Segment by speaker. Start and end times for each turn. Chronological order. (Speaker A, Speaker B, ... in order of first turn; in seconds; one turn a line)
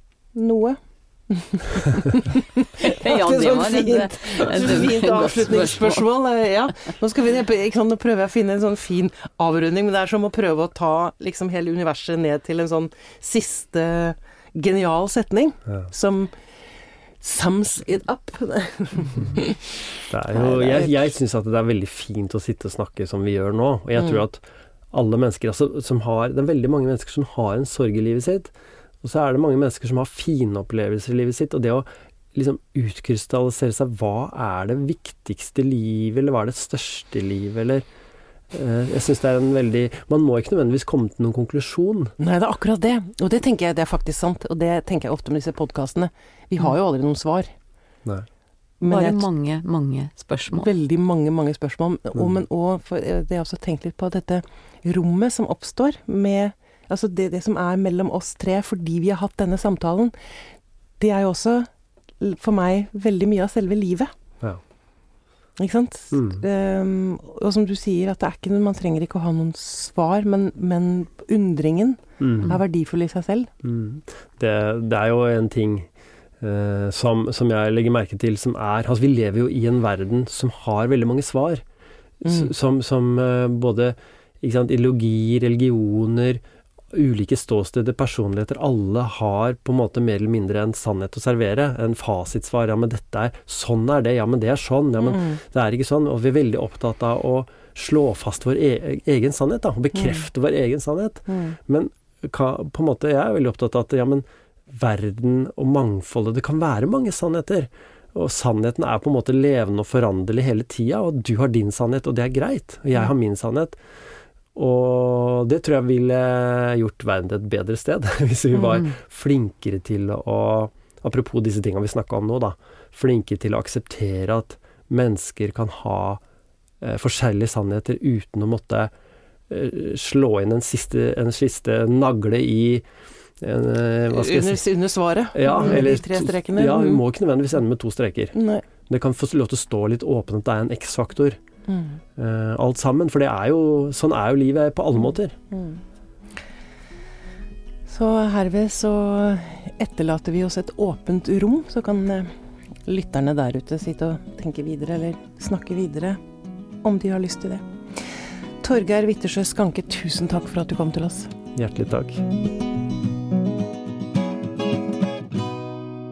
Speaker A: 0.3-16.4
Speaker B: 2.8-6.0
Speaker A: 17.2-21.0
Speaker C: 20.1-37.8
Speaker C: 38.5-42.1
Speaker A: 42.2-47.5
Speaker A: 48.8-49.2
Speaker B: 48.9-50.7
Speaker A: 50.5-60.1
Speaker A: 61.0-64.1
Speaker A: 65.6-73.5
Speaker C: 66.1-66.4
Speaker C: 72.2-72.5
Speaker C: 73.6-75.9
Speaker C: 76.4-81.6
Speaker C: 82.2-113.8
Speaker A: 82.2-82.5
Speaker A: 95.0-95.4
Speaker A: 101.3-101.6
Speaker C: 114.5-126.2
Speaker B: 118.6-118.9
Speaker C: 126.8-128.9
Speaker C: 129.5-132.8
Speaker C: 133.4-134.6
Speaker A: 134.1-137.0
Speaker C: 135.3-141.4
Speaker A: 138.3-138.6
Speaker A: 141.7-142.0
Speaker C: 142.2-145.3
Speaker A: 145.5-145.8
Speaker A: 147.9-152.3
Speaker A: 152.8-156.2
Speaker A: 156.8-161.3
Speaker C: 161.5-162.2